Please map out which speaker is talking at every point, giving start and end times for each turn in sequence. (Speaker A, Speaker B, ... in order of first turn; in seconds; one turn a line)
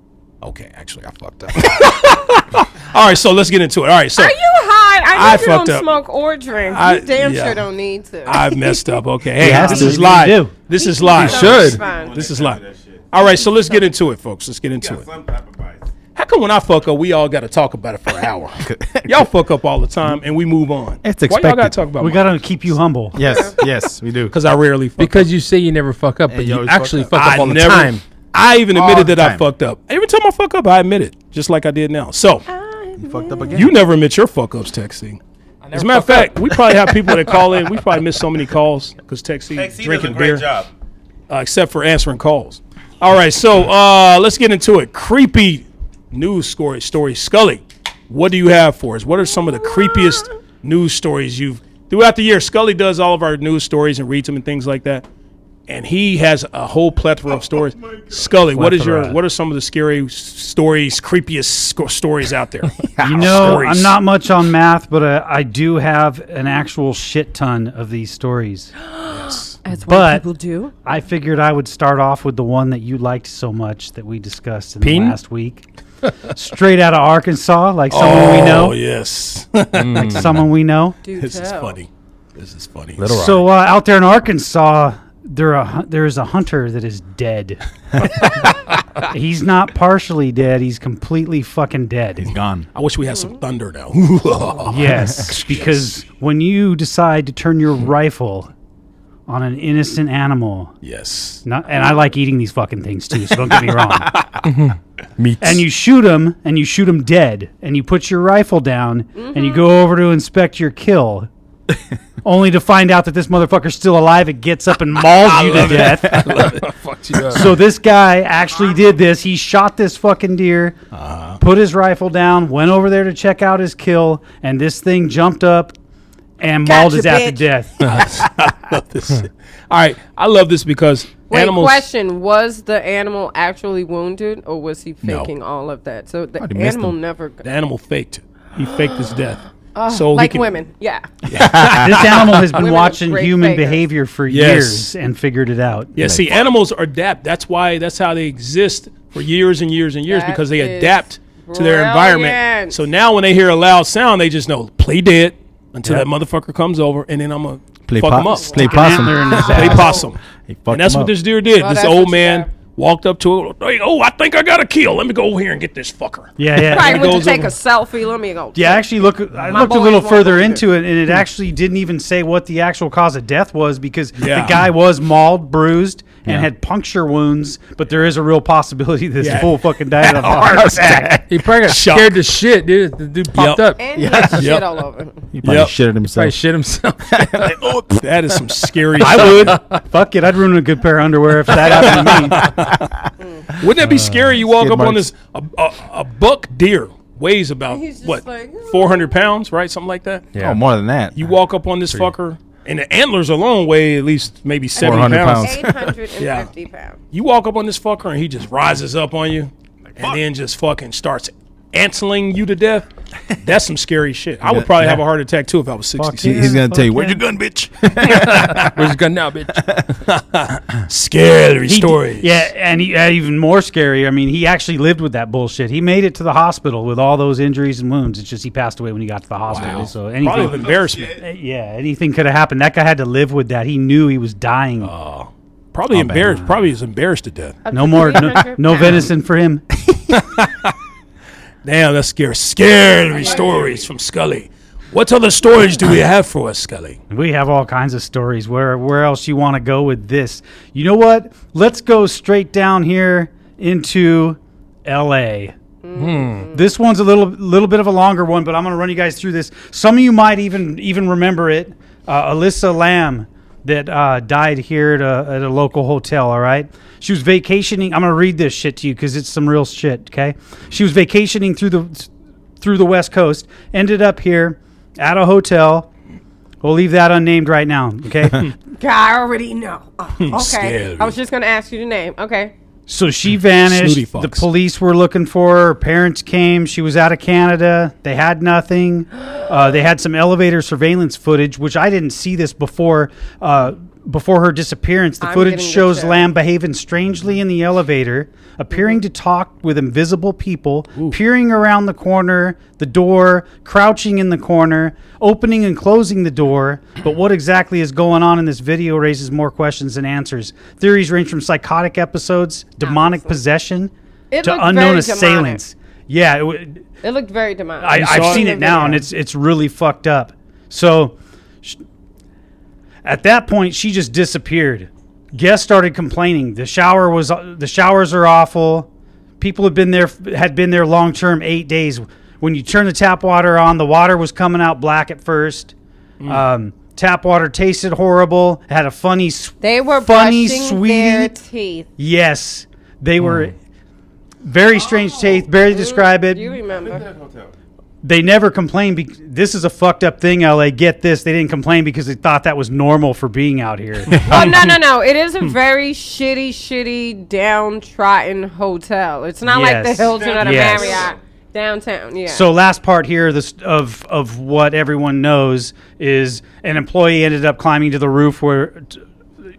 Speaker A: 0.4-4.3
Speaker B: 4.1-10.0
Speaker A: 5.1-5.9
Speaker A: 6.6-7.6
Speaker A: 8.2-12.6
Speaker C: 9.4-10.6
Speaker B: 10.7-12.2
Speaker D: 11.2-11.8
Speaker E: 11.4-13.1
Speaker A: 13.1-15.1
Speaker B: 13.2-13.8
Speaker E: 14.8-15.9
Speaker A: 16.1-22.7
Speaker F: 18.6-19.3
Speaker F: 21.0-21.8
Speaker C: 22.0-23.2
Speaker F: 23.1-24.4
Speaker B: 23.2-23.5
Speaker A: 24.3-25.3
Speaker D: 25.0-28.0
Speaker F: 26.3-27.4
Speaker A: 27.1-32.5
Speaker F: 28.7-29.4
Speaker B: 32.5-33.7
Speaker F: 33.0-33.7
Speaker A: 33.5-35.2
Speaker D: 35.7-36.3
Speaker A: 35.7-40.5
Speaker E: 39.5-40.7
Speaker A: 41.3-55.0
Speaker A: 55.7-64.0
Speaker D: 58.5-59.2
Speaker F: 63.0-63.6
Speaker C: 63.0-68.7
Speaker B: 68.9-70.7
Speaker A: 69.1-69.5
Speaker C: 69.9-70.2
Speaker C: 70.8-75.6
Speaker D: 74.8-75.2
Speaker C: 76.3-78.8
Speaker A: 77.9-80.4
Speaker D: 79.7-80.5
Speaker C: 80.0-81.0
Speaker B: 81.0-81.8
Speaker A: 81.1-83.1
Speaker D: 83.0-83.5
Speaker C: 83.1-88.2
Speaker C: 89.0-92.3
Speaker F: 92.2-92.7
Speaker A: 92.7-96.0
Speaker B: 93.1-93.4
Speaker C: 94.7-98.5
Speaker C: 99.3-100.7
Speaker A: 100.8-101.4
Speaker C: 101.4-104.1
Speaker D: 104.4-105.6
Speaker C: 105.4-111.3
Speaker B: 109.2-109.6
Speaker C: 112.2-116.3
Speaker A: 115.2-117.4
Speaker D: 115.7-117.6
Speaker C: 117.3-120.8
Speaker F: 120.9-121.3
Speaker C: 121.4-125.7
Speaker C: 126.4-127.8
Speaker B: 126.6-127.5
Speaker A: 127.8-131.8
Speaker B: 131.3-137.4
Speaker A: 135.0-135.3
Speaker F: 136.4-136.9
Speaker A: 137.4-140.5
Speaker B: 138.6-141.1
Speaker A: 141.3-142.4
Speaker F: 141.3-142.2
Speaker C: 141.6-145.9
Speaker B: 142.5-143.8
Speaker A: 144.3-144.9
Speaker A: 145.9-160.2
Speaker F: 146.0-146.3
Speaker B: 150.1-152.8
Speaker F: 157.9-159.8
Speaker B: 158.3-160.1
Speaker C: 158.6-159.9
Speaker F: 160.5-161.1
Speaker A: 160.7-167.5
Speaker B: 161.5-162.5
Speaker C: 166.4-167.2
Speaker B: 166.6-170.6
Speaker C: 168.5-181.2
Speaker A: 174.2-174.6
Speaker A: 179.2-182.4
Speaker D: 181.3-183.8
Speaker A: 183.3-183.8
Speaker B: 183.8-185.3
Speaker F: 183.9-184.6
Speaker A: 184.3-184.7
Speaker F: 185.3-186.4
Speaker A: 185.4-185.7
Speaker D: 186.1-187.5
Speaker F: 187.1-188.0
Speaker A: 187.9-189.6
Speaker C: 189.0-192.5
Speaker D: 189.3-189.8
Speaker A: 191.6-192.8
Speaker B: 193.2-193.5
Speaker A: 193.6-200.3
Speaker D: 193.8-194.3
Speaker F: 194.4-195.1
Speaker B: 197.7-199.3
Speaker D: 200.3-200.6
Speaker F: 200.4-201.2
Speaker A: 201.2-205.7
Speaker B: 204.8-207.0
Speaker F: 204.8-205.9
Speaker A: 206.2-206.5
Speaker A: 207.1-212.8
Speaker A: 213.4-216.5
Speaker F: 214.4-215.0
Speaker C: 216.0-217.2
Speaker F: 216.2-218.8
Speaker A: 218.1-218.8
Speaker D: 218.2-219.8
Speaker F: 219.6-219.9
Speaker A: 220.1-222.5
Speaker C: 221.7-234.9
Speaker A: 229.5-231.2
Speaker E: 230.2-231.2
Speaker A: 234.8-237.6
Speaker F: 235.9-236.4
Speaker C: 236.2-236.5
Speaker B: 237.6-239.1
Speaker C: 237.7-239.6
Speaker A: 240.1-240.7
Speaker A: 241.6-247.0
Speaker B: 243.2-243.8
Speaker C: 247.1-255.5
Speaker B: 255.8-256.7
Speaker D: 255.9-256.5
Speaker C: 256.5-272.1
Speaker C: 272.6-275.9
Speaker C: 276.6-278.5
Speaker B: 278.8-282.5
Speaker A: 280.2-281.1
Speaker C: 282.9-316.8
Speaker A: 283.6-284.5
Speaker B: 295.2-296.3
Speaker B: 298.7-299.0
Speaker B: 312.8-313.4
Speaker B: 314.3-315.6
Speaker B: 317.0-319.1
Speaker C: 317.8-321.8
Speaker A: 317.9-318.5
Speaker C: 323.0-328.9
Speaker C: 329.4-335.7
Speaker C: 336.3-341.3
Speaker B: 339.6-341.9
Speaker C: 342.0-343.6
Speaker C: 344.4-346.6
Speaker B: 344.9-347.1
Speaker E: 346.7-347.5
Speaker C: 348.0-354.4
Speaker B: 354.2-362.5
Speaker A: 354.2-354.6
Speaker C: 359.4-361.0
Speaker E: 360.0-361.2
Speaker C: 362.3-369.0